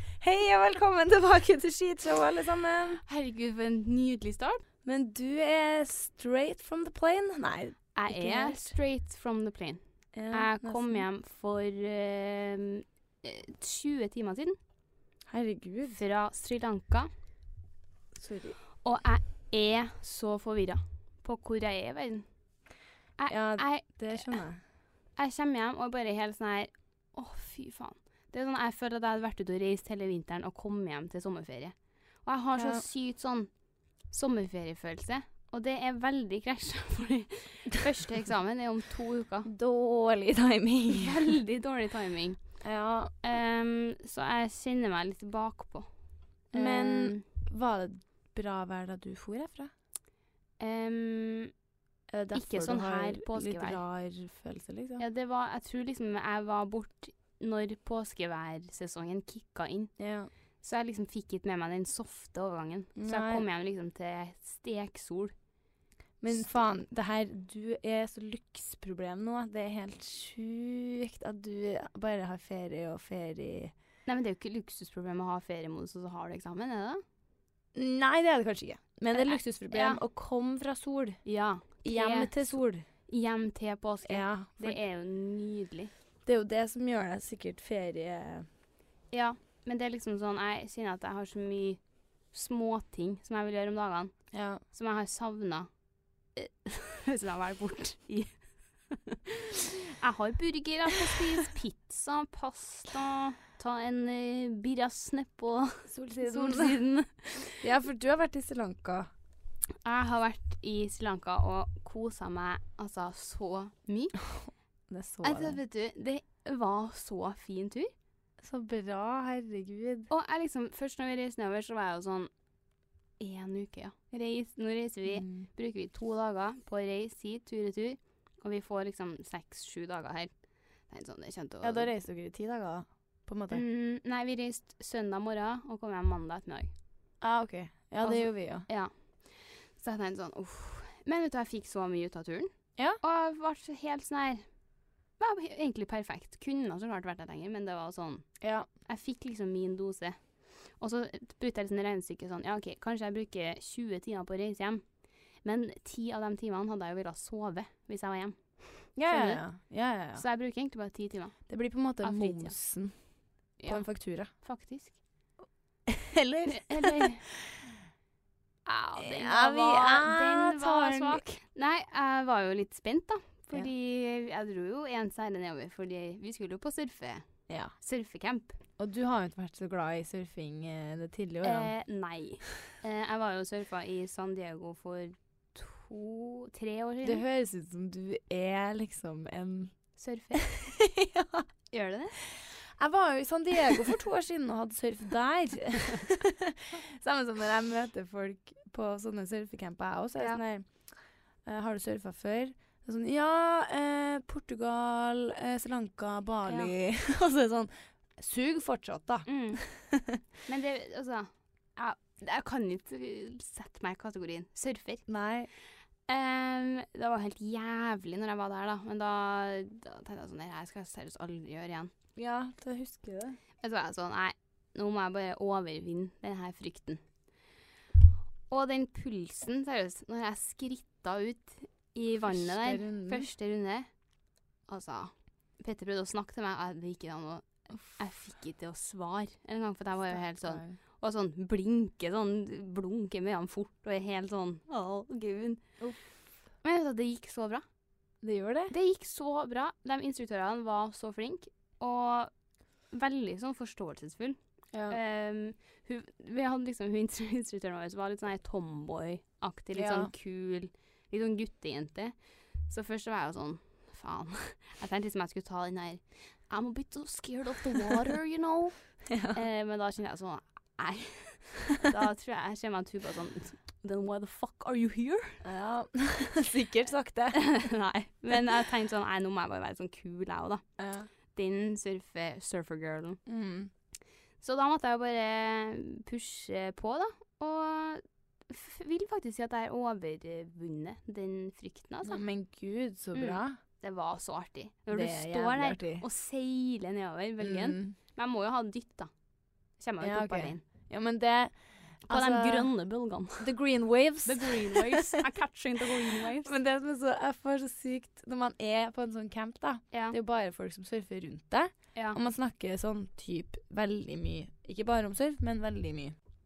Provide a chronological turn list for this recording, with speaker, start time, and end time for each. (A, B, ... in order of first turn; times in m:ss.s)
0:00.2-0:03.0 A
0:03.0-0:04.6 B
0:04.8-0:08.8 A
0:08.0-0:14.6 B
0:10.1-0:11.0 A
0:15.3-0:16.0 A
0:15.9-0:17.1 B
0:18.2-0:18.6 A
0:18.8-0:22.3 B
0:23.2-0:24.4 B
0:23.3-0:24.6 A
0:25.2-0:33.5 B
0:32.6-0:32.8 A
0:34.1-0:39.5 B
0:39.4-0:41.2 A
0:40.9-0:42.4 B
0:42.6-0:43.1 A
0:43.2-0:45.9 B
0:46.5-0:47.2 B
0:46.5-0:49.7 A
0:50.6-0:51.5 B
0:52.1-0:55.0 A
0:52.3-0:53.8 B
0:55.0-0:59.9 B
1:00.0-1:00.3 A
1:00.6-1:05.3 B
1:03.0-1:03.4 A
1:06.2-1:13.7 A
1:14.1-1:17.0 B
1:17.7-1:21.2 A
1:19.2-1:20.0 B
1:21.2-1:22.5 B
1:21.8-1:22.8 A
1:23.1-1:25.9 B
1:24.1-1:24.8 A
1:26.2-1:28.5 A
1:29.1-1:31.8 B
1:32.3-1:34.1 B
1:34.3-1:34.6 A
1:34.7-1:35.7 B
1:36.4-1:38.4 B
1:38.9-1:47.6 B
1:45.9-1:46.8 A
1:47.6-1:49.1 A
1:49.8-1:54.2 B
1:54.9-1:55.6 A
1:55.2-1:57.9 B
1:58.4-2:00.1 A
2:00.1-2:02.3 B
2:03.2-2:10.3 B
2:05.1-2:05.5 A
2:10.9-2:11.9 B
2:11.6-2:13.6 A
2:13.5-2:16.7 B
2:17.2-2:18.7 A
2:18.0-2:24.4 B
2:25.2-2:28.4 B
2:28.4-2:28.7 A
2:28.9-2:30.2 B
2:30.8-2:34.8 B
2:35.4-2:39.4 B
2:39.0-2:40.2 A
2:40.1-2:41.5 B
2:41.5-2:42.9 A
2:42.0-2:42.6 B
2:43.6-2:45.0 B
2:43.7-2:44.3 A
2:45.9-2:47.7 A
2:46.5-2:47.2 B
2:48.7-2:57.2 B
2:49.0-2:51.3 A
2:57.8-2:58.6 B
2:58.8-3:01.7 A
3:01.4-3:07.2 B
3:07.0-3:09.8 A
3:10.0-3:10.4 B
3:10.3-3:11.5 A
3:11.7-3:12.2 B
3:12.2-3:20.9 A
3:21.4-3:30.2 A
3:26.5-3:26.7 B
3:29.3-3:29.6 B
3:30.5-3:35.0 B
3:35.1-3:35.5 A
3:36.1-3:41.9 B
3:42.2-3:43.4 A
3:43.6-3:47.0 B
3:48.5-3:53.9 B
3:52.3-3:53.3 A
3:54.7-4:05.6 B
4:00.1-4:00.8 A
4:06.6-4:07.6 B
4:08.2-4:08.7 A
4:08.7-4:12.3 B
4:12.9-4:14.4 B
4:14.7-4:15.0 A
4:14.9-4:22.2 B
4:19.7-4:20.1 A
4:22.7-4:35.4 B
4:29.1-4:29.4 A
4:35.4-4:37.4 A
4:37.3-4:40.6 B
4:40.8-4:41.1 A
4:41.3-4:43.2 B
4:43.3-4:43.7 A
4:44.4-4:52.2 B
4:52.0-4:53.6 A
4:53.1-4:59.1 B
4:54.9-4:56.0 A
4:57.4-4:57.9 A
4:59.8-5:00.6 B
5:00.0-5:01.5 A
5:02.0-5:02.7 A
5:02.1-5:03.5 B
5:03.4-5:05.2 A
5:04.2-5:06.5 B
5:06.4-5:16.2 A